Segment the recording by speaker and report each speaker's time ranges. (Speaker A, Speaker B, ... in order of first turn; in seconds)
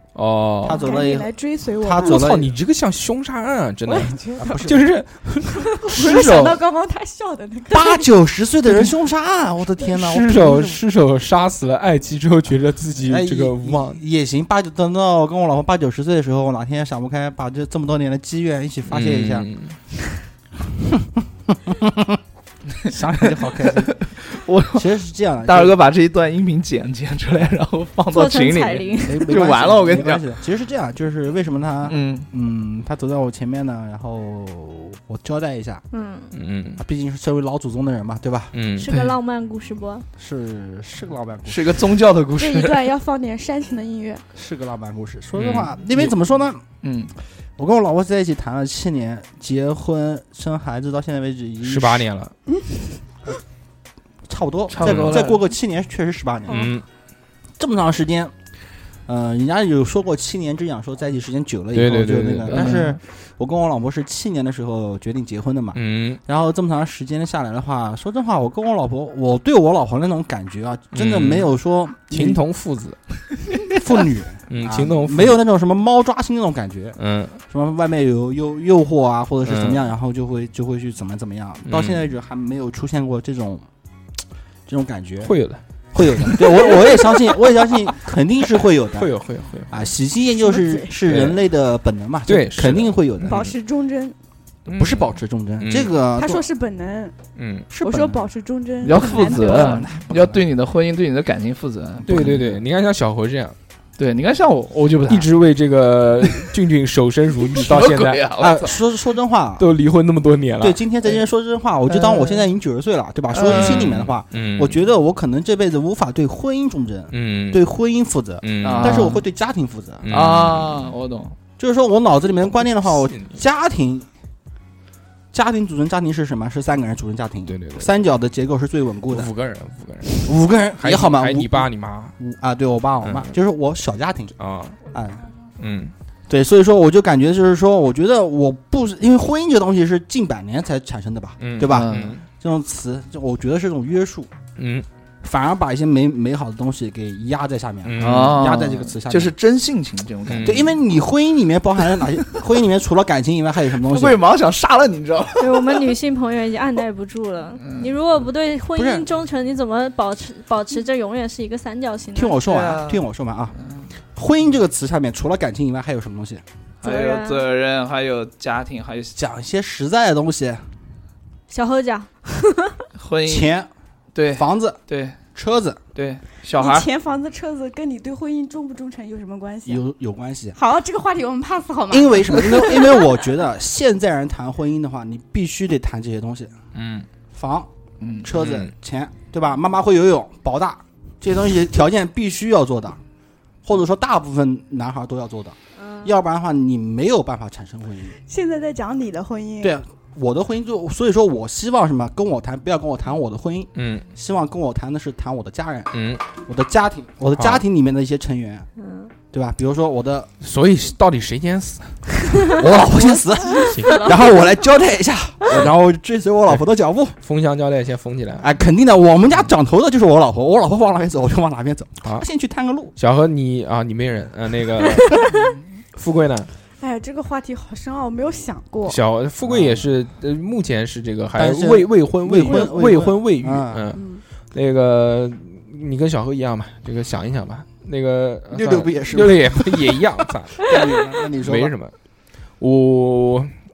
Speaker A: 0.1-1.0, 1.9-6.6, 8.7-8.9, 9.8-14.0, 18.9-19.8, 36.3-36.8, 38.5-38.9, 45.3-45.8, 51.6-52.3, 54.8-55.2, 56.5-56.8, 61.7-62.7, 65.7-66.2, 70.9-71.5, 72.1-73.0, 74.5-75.4, 77.0-77.4, 79.4-79.8, 81.7-82.1, 85.2-87.1, 88.9-89.9, 91.0-91.5, 92.2-93.5, 94.7-95.9, 97.3-97.7, 102.1-103.5, 105.1-108.2, 109.6-110.8, 113.4-114.8, 117.1-117.6, 118.4-119.2, 120.0-120.9, 122.8-123.4, 127.5-128.0, 129.1-132.2, 133.0-133.3, 134.4-134.8, 135.6-135.9, 141.4-142.2, 144.6-144.9, 147.8-148.5, 150.3-150.7, 186.7-187.1, 188.3-188.7, 203.7-204.1, 205.9-206.2, 207.3-207.6, 210.4-212.0, 213.7-214.1, 217.2-218.5, 223.0-225.2, 225.9-226.5, 228.8-241.9, 242.6-243.5
Speaker B: 0.6-2.5, 4.4-4.9, 6.0-6.2, 7.7-10.8, 13.0-19.5, 21.0-22.2, 22.8-24.1, 24.7-25.7, 29.0-35.8, 36.8-38.5, 40.2-41.8, 44.3-46.6, 47.6-52.1, 54.3-56.7, 57.6-58.3, 59.1-72.4, 73.6-77.0, 77.5-83.6, 84.7-85.3, 85.9-89.1, 89.7-93.4, 94.7-96.4, 97.7-98.2, 98.9-100.4, 102.0-102.6, 108.4-109.7, 110.6-120.0, 121.6-124.1, 125.3-129.3, 130.2-131.7, 132.2-134.3, 134.9-135.2, 136.3-144.3, 145.2-149.3, 150.4-154.2, 158.8-159.1, 162.1-163.6, 164.1-166.4, 169.2-170.6, 173.3-173.7, 174.3-174.8, 175.3-175.8, 179.7-180.6, 181.9-186.5, 187.3-187.7, 188.2-193.0, 193.6-198.2, 199.6-208.7, 209.3-210.3, 212.5-217.2, 218.4-222.9, 229.4-229.9, 231.3-233.9, 238.5-241.7
Speaker C: 0.7-2.3, 3.9-4.7, 5.7-8.1, 42.4-44.2, 90.4-91.0, 93.2-94.2, 96.2-97.1, 97.8-99.9, 176.6-179.8, 180.5-183.0, 198.2-199.7, 212.9-214.2, 226.8-229.0, 233.9-234.2
Speaker D: 23.4-30.2, 31.8-32.3, 38.9-39.1, 41.5-42.8, 46.8-47.1, 54.7-55.4, 62.5-63.0, 98.8-102.4, 104.0-105.3, 106.2-106.5, 107.5-108.8, 111.9-112.5, 113.3-114.0, 118.6-119.2, 120.1-121.3, 141.6-142.2, 148.0-150.8, 151.8-152.2, 153.8-155.9, 157.6-157.9, 162.4-163.0, 163.6-163.9, 166.8-169.2, 172.9-173.5, 174.1-175.2, 175.9-176.9, 188.0-188.3
Speaker E: 28.1-29.3, 35.9-36.3, 38.8-40.0, 155.4-162.4, 166.8-167.5, 171.5-172.8, 195.8-196.1, 208.8-209.1, 212.3-212.6